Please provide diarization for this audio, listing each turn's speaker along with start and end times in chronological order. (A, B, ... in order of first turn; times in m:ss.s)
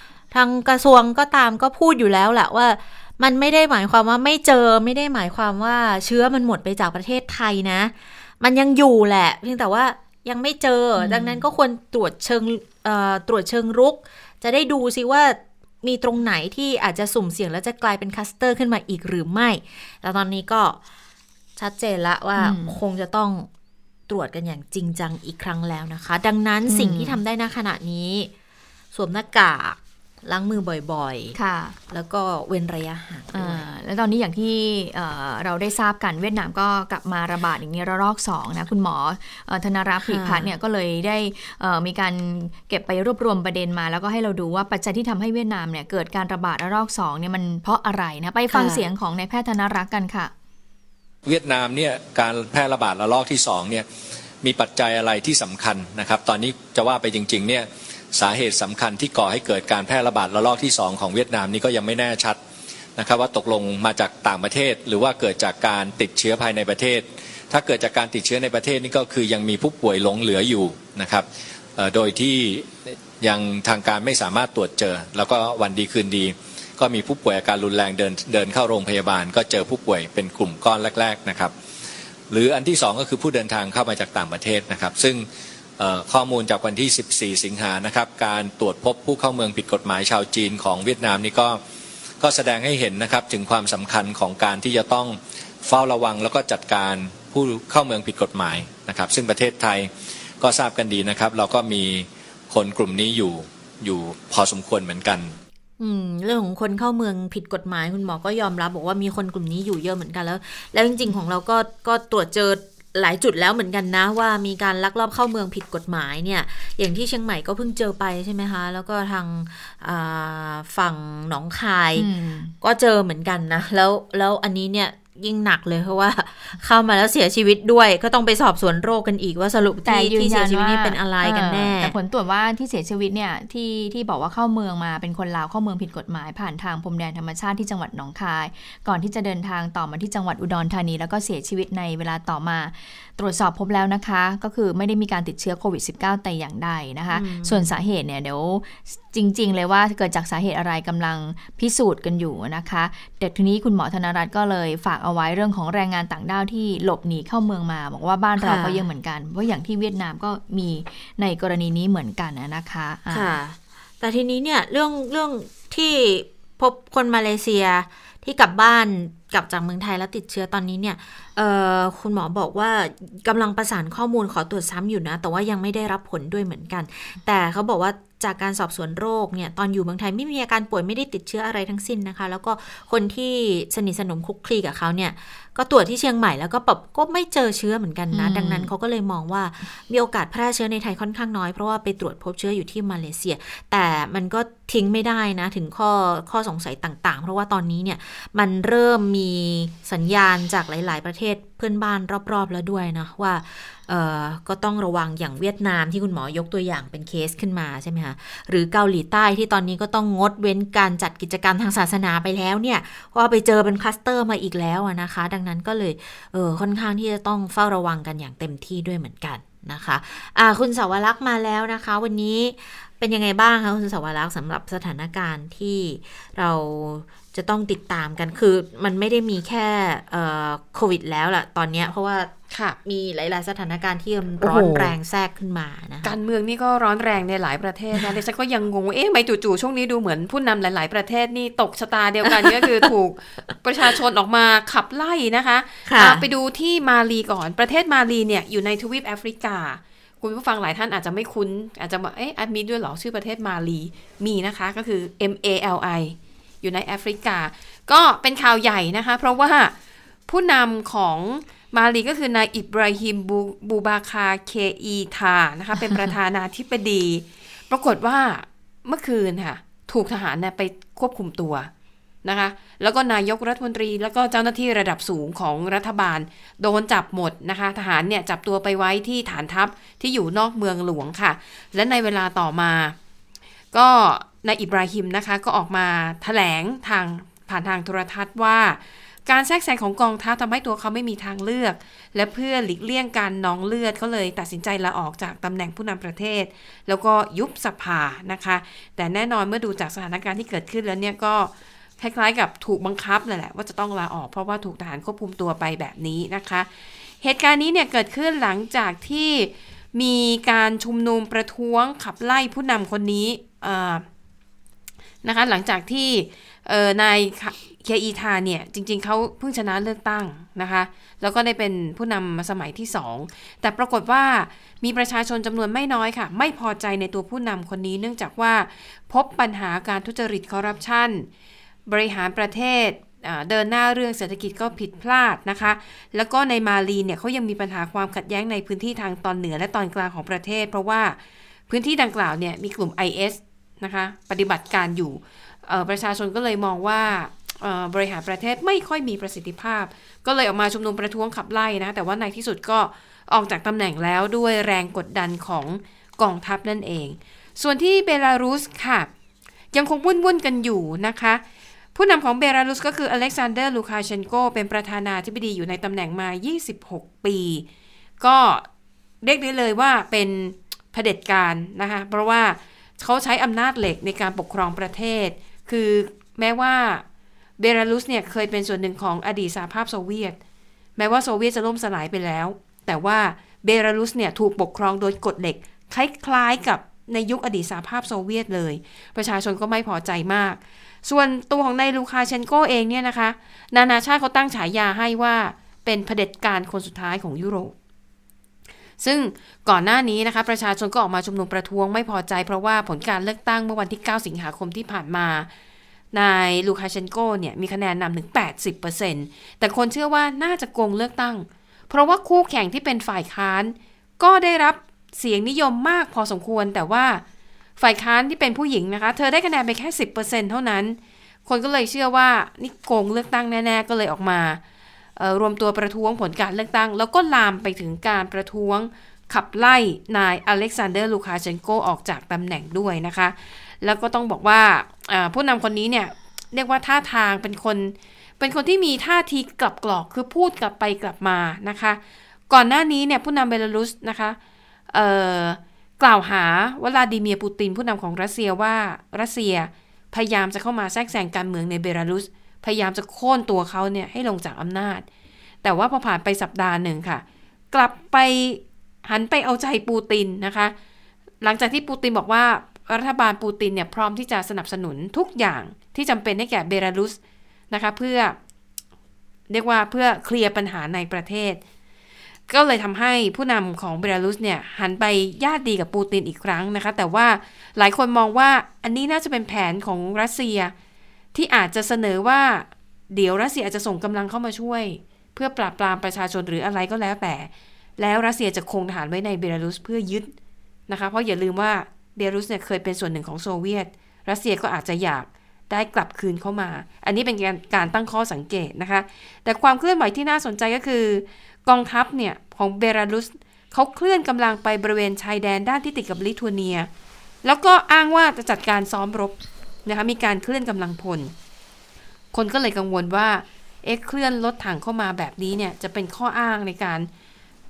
0:00.3-0:20.8 A
0:11.0-0:11.4 B
0:21.6-0:23.5 A
0:22.4-0:22.8 B
0:24.1-0:28.3 A
0:26.7-0:27.2 B
0:28.9-0:31.4 A
0:31.4-0:31.8 B
0:31.9-0:33.7 A
0:33.3-0:50.3 B
0:40.0-0:40.5 A
0:48.5-0:48.9 A
0:51.3-0:53.9 C
0:54.4-1:02.4 C
1:03.0-1:21.5 C
1:22.3-1:25.2 C
1:25.8-1:31.6 C
1:32.2-1:45.4 C
1:45.8-2:02.1 A
2:02.0-2:02.5 B
2:02.6-2:11.9 A
2:09.8-2:43.3 B
2:27.1-2:27.7 A
2:38.4-2:38.9 A
2:43.1-3:52.3 A
3:08.1-3:08.7 B
3:52.5-3:52.8 D
3:52.8-3:56.2 A
3:54.5-3:54.9 D
3:56.0-4:19.8 D
4:02.2-4:02.9 A
4:05.8-4:06.2 A
4:20.3-4:31.7 D
4:32.2-4:43.0 D
4:43.7-5:06.7 D
5:07.2-5:14.0 D
5:15.2-5:31.3 D
5:31.9-5:41.2 D
5:41.7-5:59.1 D
5:59.7-6:01.4 D
6:02.0-6:07.6 D
6:08.2-6:08.7 D
6:09.2-6:17.0 D
6:17.6-6:20.4 D
6:21.0-6:37.8 D
6:39.0-6:45.5 D
6:46.1-6:57.2 D
6:57.8-7:04.6 D
7:05.2-7:24.4 D
7:24.9-7:35.0 D
7:35.6-7:40.7 D
7:41.4-7:47.2 D
7:47.7-7:48.4 D
7:49.5-7:51.6 D
7:52.5-8:00.7 D
8:01.3-8:10.3 D
8:10.9-8:26.9 D
8:27.4-8:29.3 D
8:29.9-8:31.3 D
8:32.3-8:37.1 D